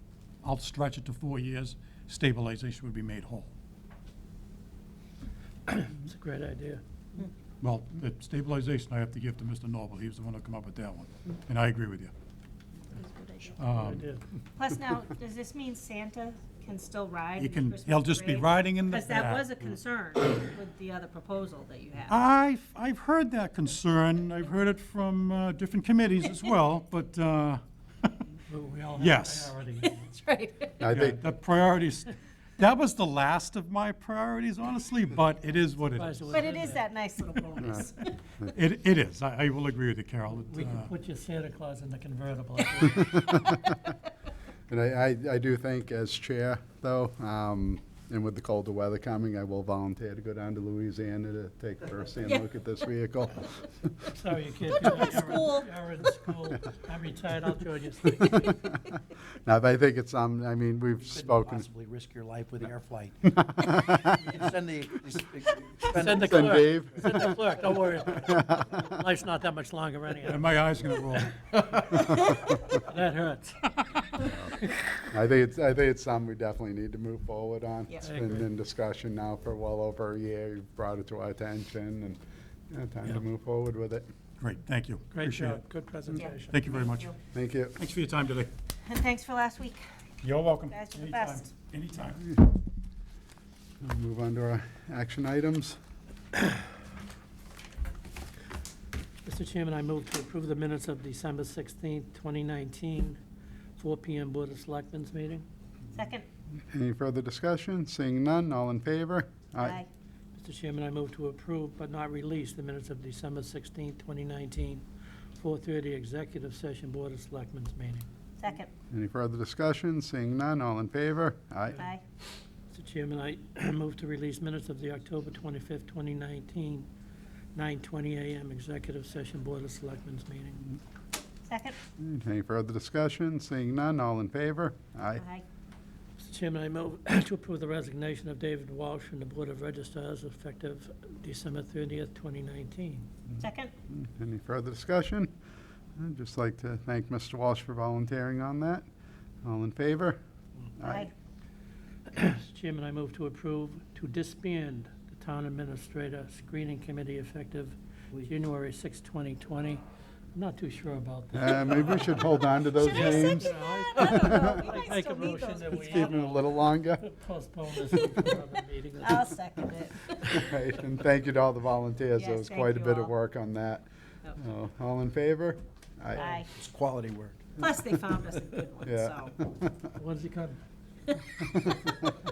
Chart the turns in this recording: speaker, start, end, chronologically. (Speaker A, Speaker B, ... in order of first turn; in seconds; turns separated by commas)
Speaker A: 0.4-3.5, Speaker B: 5.7-6.8, Speaker A: 7.6-12.1, Speaker C: 12.9-13.7, Speaker A: 13.6-14.0, Speaker B: 13.7-14.2, Speaker C: 14.6-22.2, Speaker A: 17.4-19.5, Speaker A: 22.1-28.1, Speaker B: 28.5-30.0, Speaker A: 28.9-29.5, Speaker C: 29.8-30.9, Speaker D: 30.8-31.2, Speaker A: 30.9-36.6, Speaker B: 35.9-36.9, Speaker C: 36.3-38.1, Speaker D: 37.6-37.8, Speaker A: 38.5-40.9, Speaker B: 40.5-43.4, Speaker D: 43.1-43.8, Speaker D: 44.7-53.9, Speaker B: 54.1-58.6, Speaker C: 54.8-55.7, Speaker D: 58.3-58.6, Speaker D: 59.4-61.6, Speaker E: 61.1-66.8, Speaker D: 63.4-64.4, Speaker D: 65.8-67.3, Speaker B: 65.9-70.5, Speaker D: 68.4-68.8, Speaker A: 70.2-71.5, Speaker B: 71.8-75.0, Speaker D: 75.1-84.0, Speaker B: 78.0-78.5, Speaker A: 84.4-85.6, Speaker B: 85.1-86.6, Speaker A: 86.3-87.1, Speaker D: 87.3-87.8, Speaker A: 87.8-88.5, Speaker C: 88.8-89.8, Speaker A: 90.2-92.4, Speaker C: 90.7-91.4, Speaker D: 93.8-95.8, Speaker B: 99.2-103.2, Speaker B: 103.8-105.4, Speaker C: 105.9-106.2, Speaker D: 106.7-109.8, Speaker C: 109.6-109.9, Speaker B: 110.3-114.8, Speaker B: 115.4-118.1, Speaker C: 118.4-118.7, Speaker D: 118.9-121.8, Speaker B: 122.7-126.9, Speaker B: 127.5-130.8, Speaker C: 131.4-131.8, Speaker D: 132.0-135.2, Speaker C: 135.2-135.4, Speaker B: 136.2-143.1, Speaker C: 143.4-143.7, Speaker D: 143.9-145.3, Speaker D: 146.0-148.8, Speaker D: 149.4-150.2, Speaker D: 150.8-151.1, Speaker C: 150.8-151.1, Speaker B: 152.1-169.3, Speaker D: 161.3-164.6, Speaker C: 162.7-166.1, Speaker D: 165.8-167.1, Speaker D: 167.9-168.2, Speaker C: 169.0-170.4, Speaker D: 170.2-176.4, Speaker C: 172.2-173.1, Speaker C: 176.2-176.5, Speaker E: 176.5-177.6, Speaker C: 177.6-179.3, Speaker D: 178.8-179.9, Speaker B: 179.9-180.6